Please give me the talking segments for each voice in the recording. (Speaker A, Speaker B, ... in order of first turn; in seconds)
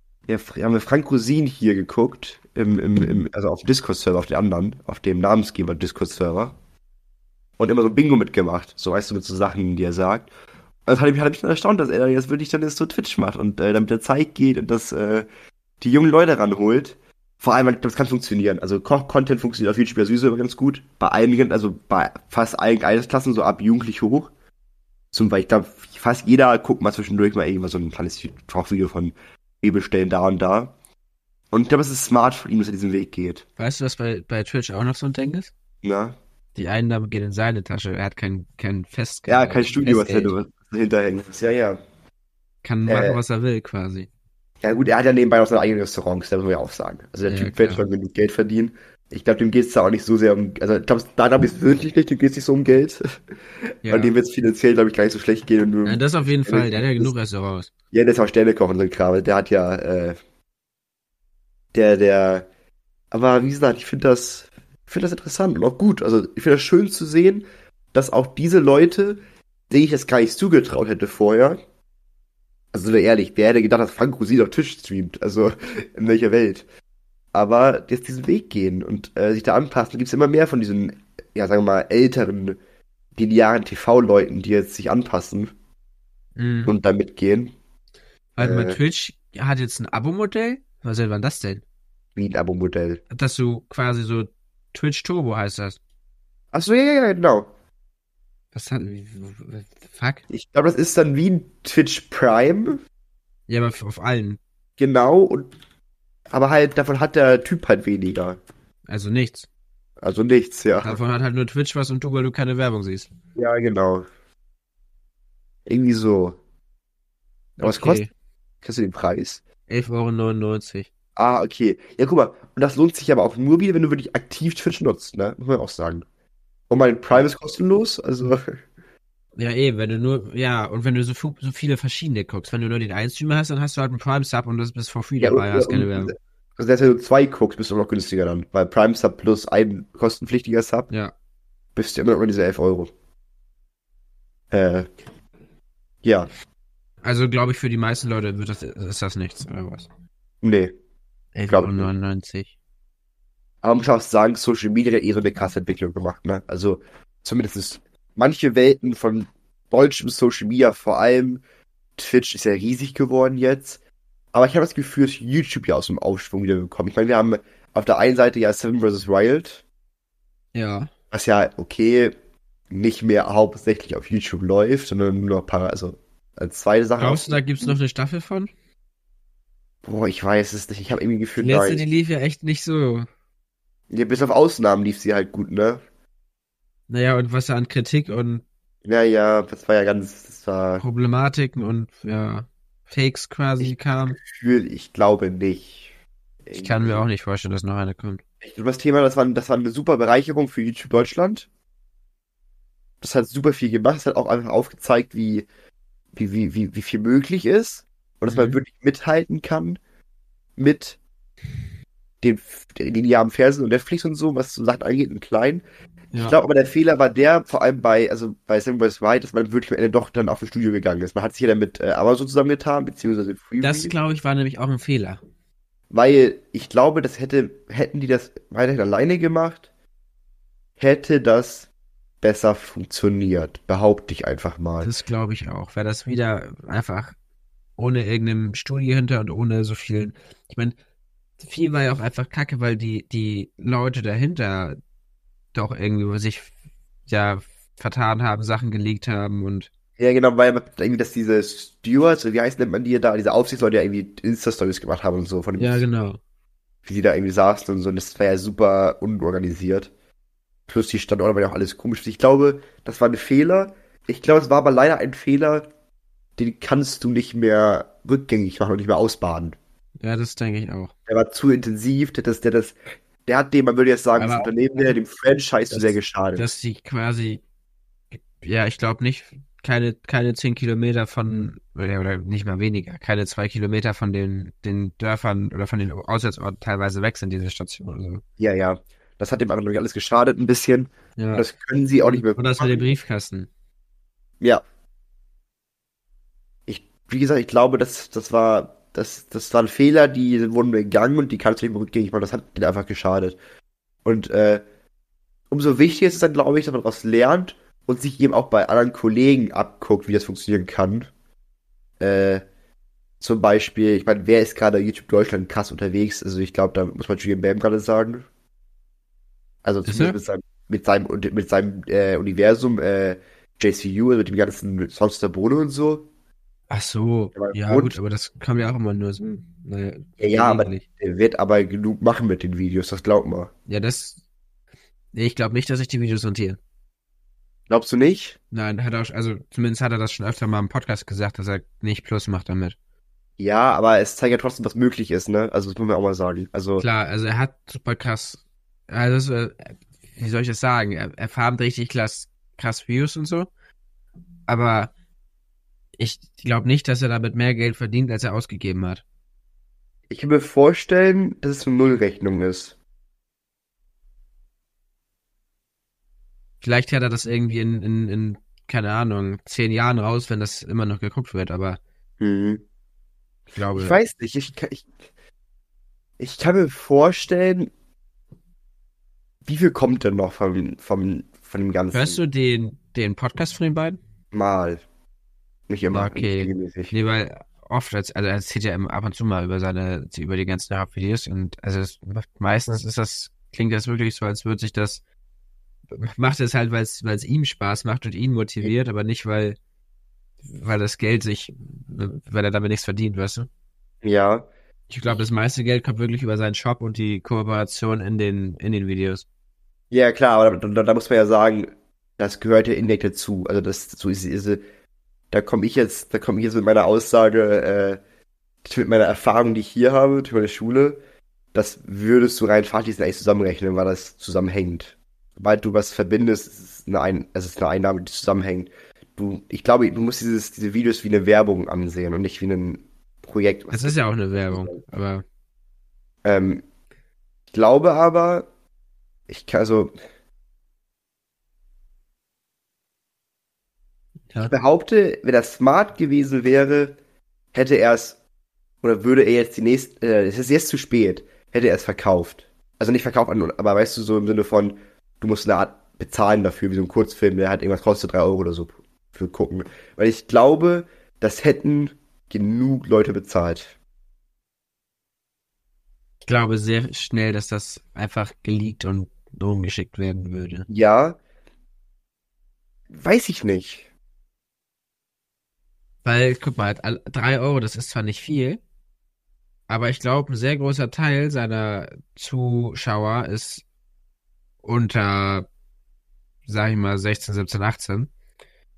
Speaker A: 0.3-6.5, 7.6-10.3, 10.8-15.3, 15.8-24.3, 25.1-30.7, 31.5-33.4, 35.8-36.1, 39.3-41.8, 42.9-43.2, 44.6-53.0, 53.8-57.1, 57.9-60.2, 61.7-62.5, 63.1-71.6, 72.7-76.6, 77.3-82.6, 83.2-85.5, 86.7-87.5, 88.4-88.8, 92.2-93.0, 96.5-97.5, 100.3-102.8, 104.8-105.5, 106.3-108.4, 110.0-111.0, 113.3-114.0, 115.7-116.4, 117.6-118.0, 118.6-119.4, 121.2-126.0, 126.7-128.6, 135.2-140.9, 141.8-142.9, 144.5-144.9, 146.0-146.3, 150.4-150.7, 151.5-151.9, 153.6-161.4, 162.0-163.8, 164.3-169.6, 171.1-172.1, 172.7-177.7, 179.8-181.8, 183.9-185.8, 188.8-190.8, 193.6-195.9, 196.4-197.0, 198.4-201.5, 203.0-205.4, 206.1-209.8, 210.6-211.0, 212.2-215.6, 216.2-223.9, 225.9-229.6, 230.8-231.7, 232.2-234.9, 250.0-255.8, 256.8-259.9, 260.7-265.7, 266.4-269.6, 271.1-276.4, 288.4-292.9, 296.7-303.4, 304.0-304.6, 305.5-311.1, 312.0-312.4, 313.2-318.2, 319.6-326.1, 327.4-327.9, 330.2-333.5, 337.7-338.4, 343.4-346.8, 360.1-362.7, 372.2-372.6, 373.7-374.9, 376.2-377.7, 379.4-382.2, 384.3-384.8, 385.7-386.9, 404.0-404.5, 409.9-414.6, 415.3-418.0, 418.6-421.0, 421.5-433.9, 434.5-434.8, 436.2-436.6, 437.5-438.5, 439.3-439.9, 444.4-447.0, 447.5-448.2, 448.8-463.7, 470.7-471.2, 472.9-473.9
Speaker B: 33.6-35.5, 36.5-40.3, 42.6-44.1, 47.3-47.9, 53.8-54.1, 55.8-57.7, 86.4-86.7, 88.4-91.6, 93.1-95.8, 98.5-100.2, 103.5-104.4, 108.9-109.5, 110.8-113.1, 117.6-118.1, 119.7-120.9, 129.4-136.1, 147.0-149.9, 151.3-152.5, 170.5-170.9, 177.0-178.5, 181.4-183.1, 186.9-188.4, 190.8-194.2, 196.5-198.2, 208.3-208.6, 223.6-225.2, 234.8-237.1, 237.8-240.8, 241.4-244.8, 245.5-246.5, 247.1-249.7, 255.6-256.2, 270.0-270.9, 274.2-274.9, 275.7-277.4, 278.1-288.2, 291.2-291.4, 292.0-293.5, 319.8-320.2, 326.7-330.8, 333.7-334.2, 335.1-336.6, 338.5-342.7, 346.8-353.5, 354.5-354.9, 356.0-359.0, 366.6-371.8, 373.6-374.0, 381.9-384.0, 385.9-395.0, 395.9-399.6, 400.5-403.5, 404.9-409.2, 433.7-435.2, 466.2-470.7, 476.0-478.6, 479.7-483.6, 484.6-485.5, 486.4-488.1